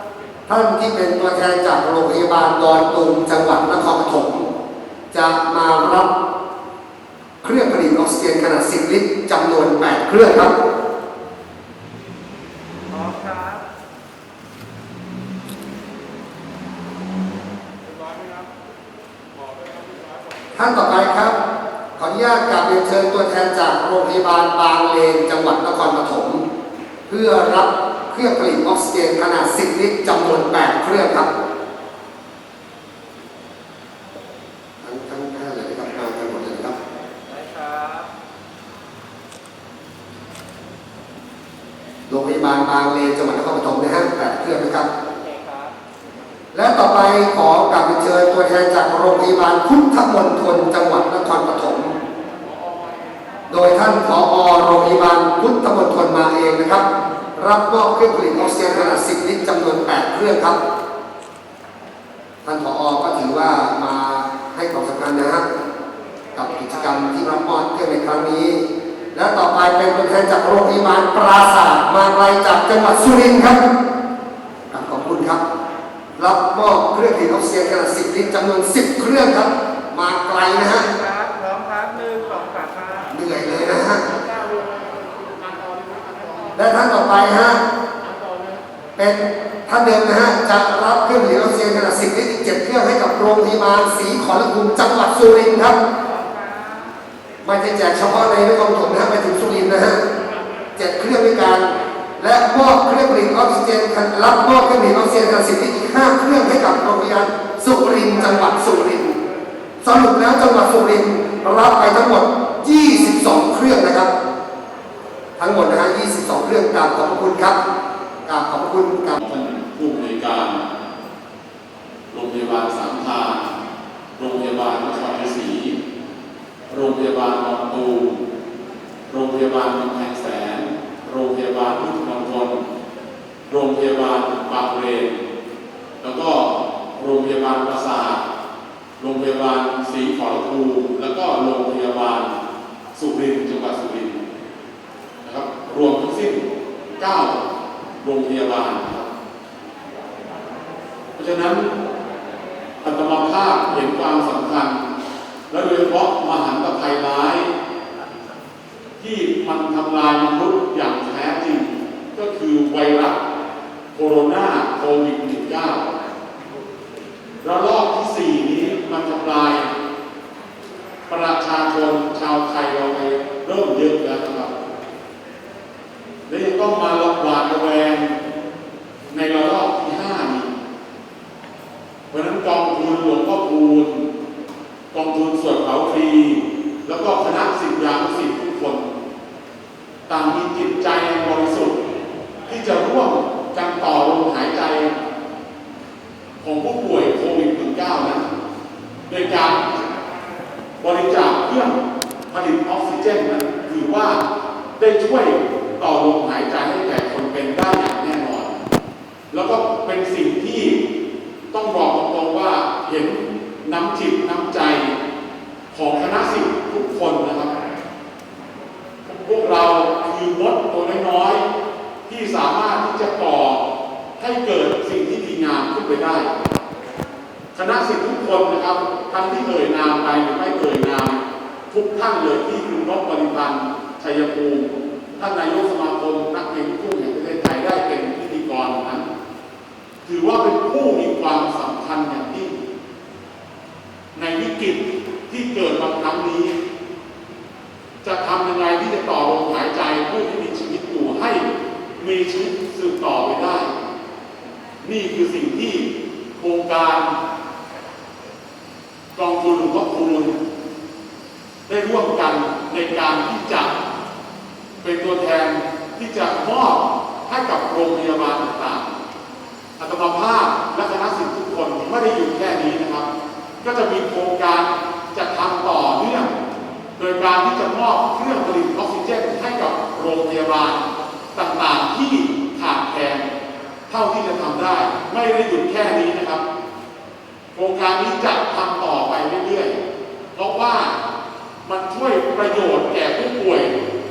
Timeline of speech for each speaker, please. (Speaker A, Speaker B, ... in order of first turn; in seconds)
Speaker A: 0.5-4.5, 5.1-6.1, 7.4-10.5, 20.5-21.4, 22.0-26.4, 27.1-31.3, 34.8-36.7, 42.1-44.9, 46.5-51.9, 53.5-56.8, 57.4-60.6, 62.4-65.5, 66.3-73.6, 74.7-75.4, 76.2-80.9, 83.1-84.1, 86.5-87.6, 89.0-95.8, 97.4-100.0, 100.8-109.2, 109.8-114.1, 115.4-117.6, 118.2-119.2
Speaker B: 12.9-13.6, 37.3-38.1, 45.2-45.7, 81.0-83.0, 96.2-96.9
Speaker C: 84.2-86.5, 88.2-88.6, 119.2-120.7, 122.1-123.5, 124.2-125.8, 126.7-128.2, 129.1-132.6, 133.5-135.2, 136.0-138.2, 139.0-142.3, 142.9-144.2, 145.2-146.4, 147.0-147.4, 148.0-149.1, 151.2-151.7, 152.8-154.8, 155.5-157.5, 159.0-163.2, 163.9-165.9, 167.4-169.7, 171.1-174.5, 176.3-178.1, 179.1-180.5, 182.1-184.1, 184.9-188.9, 190.1-191.8, 192.5-194.9, 196.4-198.3, 199.1-199.8, 200.8-201.8, 202.3-204.2, 204.8-208.5, 209.3-210.8, 211.5-214.9, 215.7-217.5, 219.0-221.4, 222.1-223.6, 224.2-226.3, 227.5-239.1, 240.0-242.6, 244.1-246.5, 248.0-251.4, 252.0-253.7, 254.8-257.1, 259.1-260.4, 261.7-263.7, 264.8-268.9, 269.8-273.1, 273.6-276.3, 276.9-280.8, 281.3-283.3, 283.9-286.4, 287.5-289.8, 290.3-291.0, 291.6-293.7